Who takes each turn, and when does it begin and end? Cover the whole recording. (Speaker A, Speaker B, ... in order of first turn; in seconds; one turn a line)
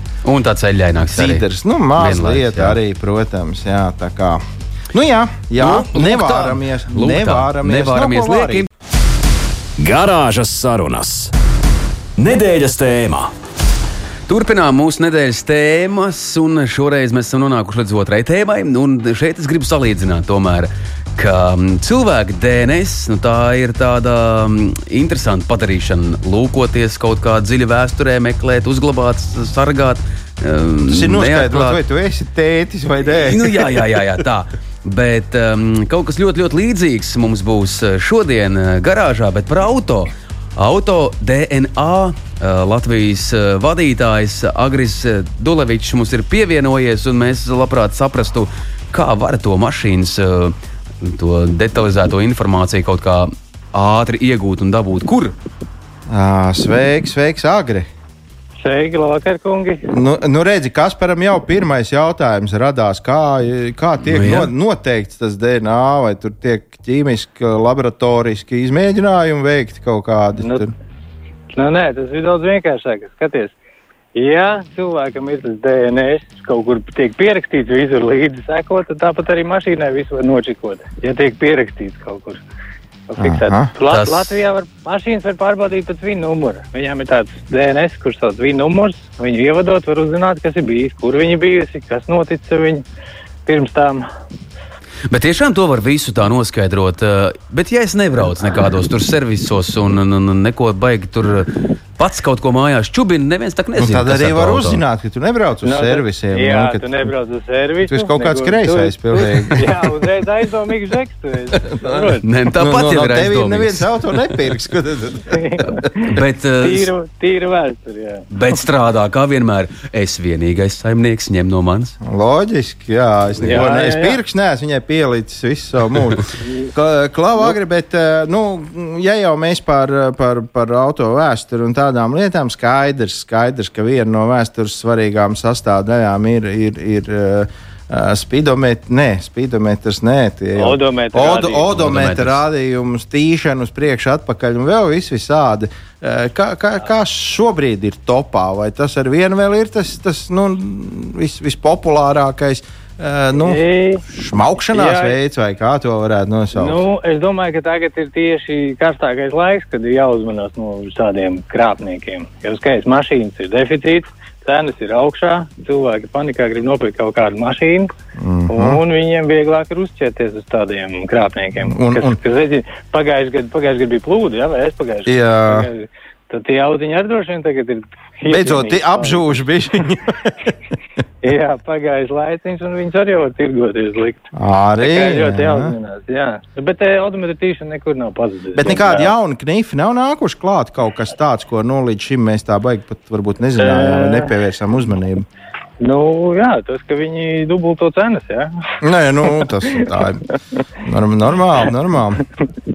Speaker A: 0.2-1.4
Speaker B: 1.1-8.7
Speaker A: 2.0-2.8
Speaker A: 5.6-8.7
Speaker C: 9.8-11.3
Speaker C: 12.2-13.3
Speaker A: 14.3-31.8
Speaker B: 30.9-33.8
Speaker A: 33.1-55.3
Speaker B: 56.1-57.9
Speaker D: 58.6-59.9
Speaker B: 59.9-70.7
Speaker A: 64.0-64.5
Speaker D: 71.5-73.5
Speaker D: 74.1-82.4
Speaker D: 83.1-92.8
Speaker B: 83.2-83.7
Speaker A: 83.9-84.4
Speaker D: 93.5-94.1
Speaker A: 95.1-104.8
Speaker B: 103.8-107.1
Speaker D: 105.6-112.2
Speaker B: 107.8-110.1
Speaker B: 111.6-115.7
Speaker A: 112.2-114.1
Speaker D: 115.3-116.1
Speaker A: 115.7-116.9
Speaker D: 116.6-118.3
Speaker A: 118.3-122.0
Speaker B: 122.0-156.8
Speaker A: 123.4-123.7
Speaker D: 123.4-124.2
Speaker D: 126.4-126.7
Speaker D: 140.6-141.7
Speaker A: 141.7-142.4
Speaker D: 153.4-154.1
Speaker D: 154.7-155.2
Speaker D: 156.5-167.9
Speaker B: 168.2-168.8
Speaker D: 168.5-179.4
Speaker B: 171.6-172.2
Speaker B: 175.1-175.7
Speaker B: 178.3-180.5
Speaker D: 181.2-184.2
Speaker B: 184.3-185.7
Speaker D: 184.8-189.1
Speaker B: 188.5-195.2
Speaker D: 193.6-194.3
Speaker D: 195.8-198.5
Speaker B: 198.8-200.2
Speaker D: 199.3-199.8
Speaker B: 200.8-202.2